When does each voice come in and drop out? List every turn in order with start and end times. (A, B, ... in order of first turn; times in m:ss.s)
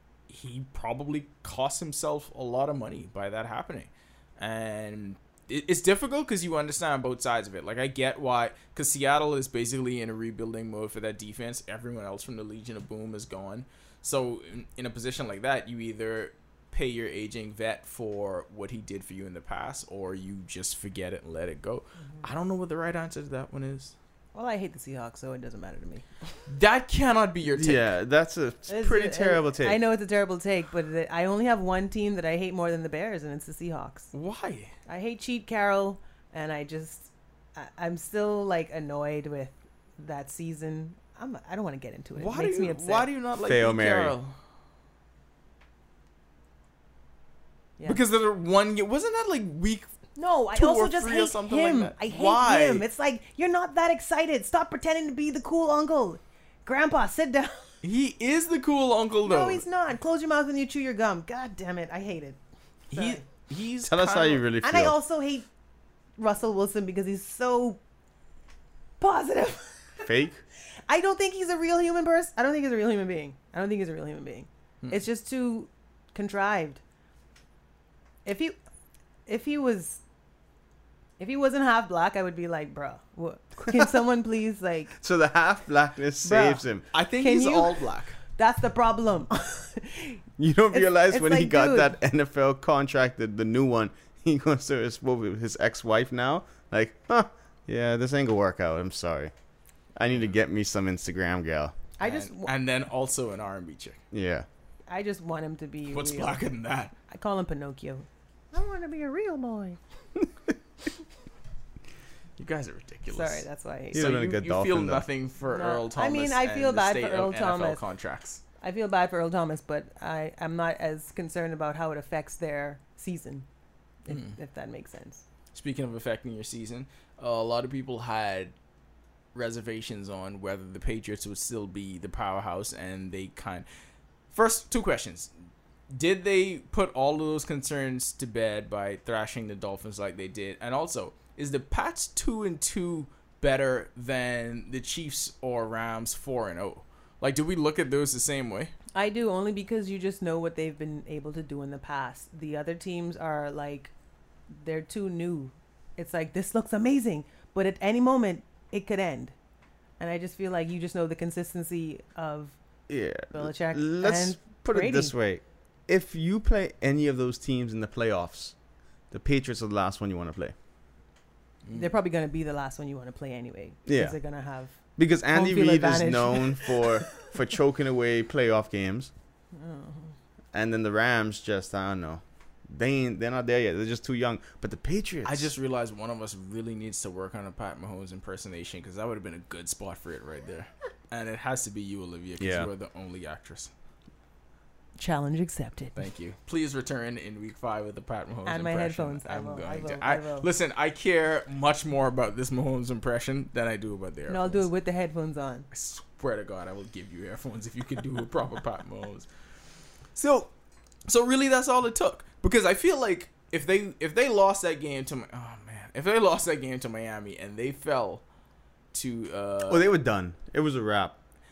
0:00.3-0:23.9 A
0:24.3-0:26.4 B
0:26.5-0:27.9 A
0:27.6-0:29.8 C
0:28.7-0:34.1 B
0:34.1-0:34.7 A
0:34.9-0:43.1 B
0:42.2-0:44.4 A
0:43.4-0:44.2 C
0:47.8-0:49.9 A
0:50.2-0:57.8 B
0:50.5-0:52.8 A
0:57.8-0:59.6 A
0:59.2-1:02.4 B
1:02.9-1:04.4 A
1:02.9-1:03.2 B
1:03.8-1:04.9 C
1:04.6-1:05.5 B
1:06.2-1:07.8 B
1:09.0-1:10.0 B
1:10.0-1:10.4 C
1:10.9-1:16.8 B
1:18.2-1:18.6 B
1:19.3-1:20.0 B
1:21.2-1:25.0 B
1:25.0-1:26.8 C
1:26.2-1:26.6 B
1:26.9-1:28.2 A
1:27.2-1:31.9 B
1:30.4-1:39.3 C
1:40.0-1:41.8 C
1:42.0-1:42.5 B
1:42.0-1:44.0 A
1:44.1-1:44.5 C
1:44.9-1:46.4 B
1:45.9-1:46.9 A
1:47.1-1:49.8 B
1:52.4-1:58.4 A
1:53.1-1:54.1 B
1:53.9-1:55.0 C
1:55.4-1:57.8 B
1:58.6-2:03.4 B
2:04.0-2:05.2 B
2:04.1-2:04.4 A
2:05.5-2:08.5 A
2:09.3-2:13.6 A
2:14.3-2:15.3 A
2:15.9-2:28.7 A
2:28.9-2:33.9 B
2:34.5-2:39.3 B
2:40.0-2:42.6 B
2:42.9-2:48.6 C
2:43.3-2:45.1 B
2:49.1-2:50.5 C
2:51.6-2:51.9 A
2:51.7-2:54.8 B
2:53.8-2:54.2 C
2:55.0-2:59.1 C
2:55.3-2:57.3 B
2:59.5-3:00.1 B
3:00.5-3:05.5 C
3:05.2-3:13.7 A
3:12.4-3:12.7 C
3:15.0-3:16.0 B
3:16.0-3:24.7 A
3:18.4-3:20.5 B
3:24.3-3:25.7 B
3:25.7-3:29.3 A
3:30.2-3:30.5 A
3:31.1-3:38.2 A
3:38.9-3:39.9 A
3:39.7-3:41.2 C